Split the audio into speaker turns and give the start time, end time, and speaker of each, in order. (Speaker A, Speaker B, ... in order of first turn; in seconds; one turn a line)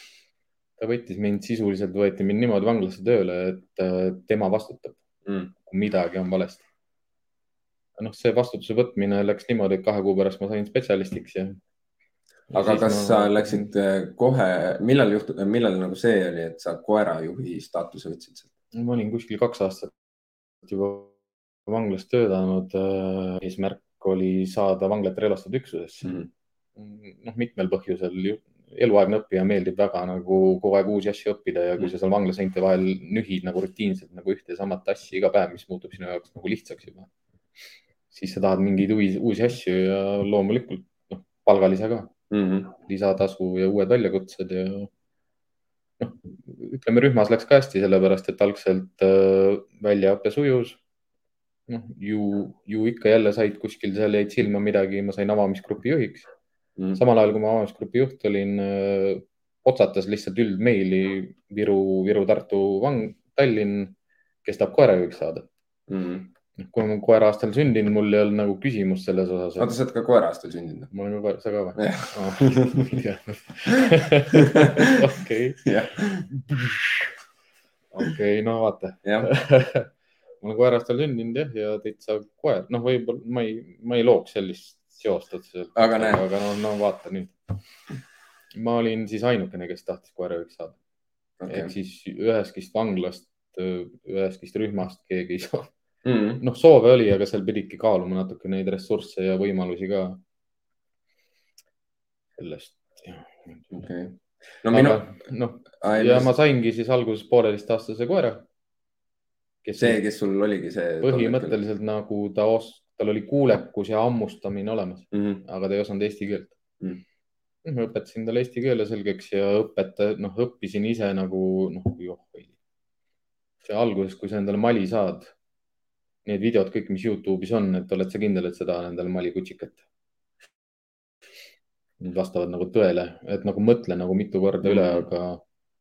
Speaker A: 0.8-5.0
Speaker B: 5.2-5.5
Speaker A: 5.6-6.7
Speaker A: 8.0-11.6
Speaker A: 12.5-13.7
Speaker B: 12.5-18.5
Speaker A: 18.7-19.9
Speaker A: 20.6-21.1
Speaker A: 21.7-26.1
Speaker B: 26.0-26.3
Speaker A: 26.8-37.1
Speaker A: 38.1-42.1
Speaker B: 42.3-42.7
Speaker A: 42.8-44.9
Speaker A: 46.0-50.8
Speaker A: 51.7-56.3
Speaker A: 57.0-65.5
Speaker B: 65.9-66.3
Speaker A: 66.6-69.7
Speaker B: 69.6-70.9
Speaker A: 70.9-75.7
Speaker B: 71.8-72.8
Speaker B: 74.3-75.0
Speaker B: 75.6-76.3
Speaker A: 76.3-77.1
Speaker A: 78.0-79.9
Speaker B: 79.0-79.3
Speaker A: 80.4-87.3
Speaker B: 85.8-86.2
Speaker A: 88.5-90.8
Speaker B: 91.4-91.7
Speaker A: 91.5-95.7
Speaker B: 96.0-96.4
Speaker A: 96.4-100.2
Speaker A: 102.4-103.7
Speaker B: 103.7-105.0
Speaker A: 104.7-108.5
Speaker B: 105.8-106.3
Speaker A: 109.6-110.0
Speaker B: 109.8-111.6
Speaker A: 111.0-116.6
Speaker B: 115.1-115.4
Speaker A: 117.6-122.5
Speaker A: 123.6-125.3
Speaker A: 126.2-129.8
Speaker A: 132.0-135.4
Speaker B: 134.6-135.1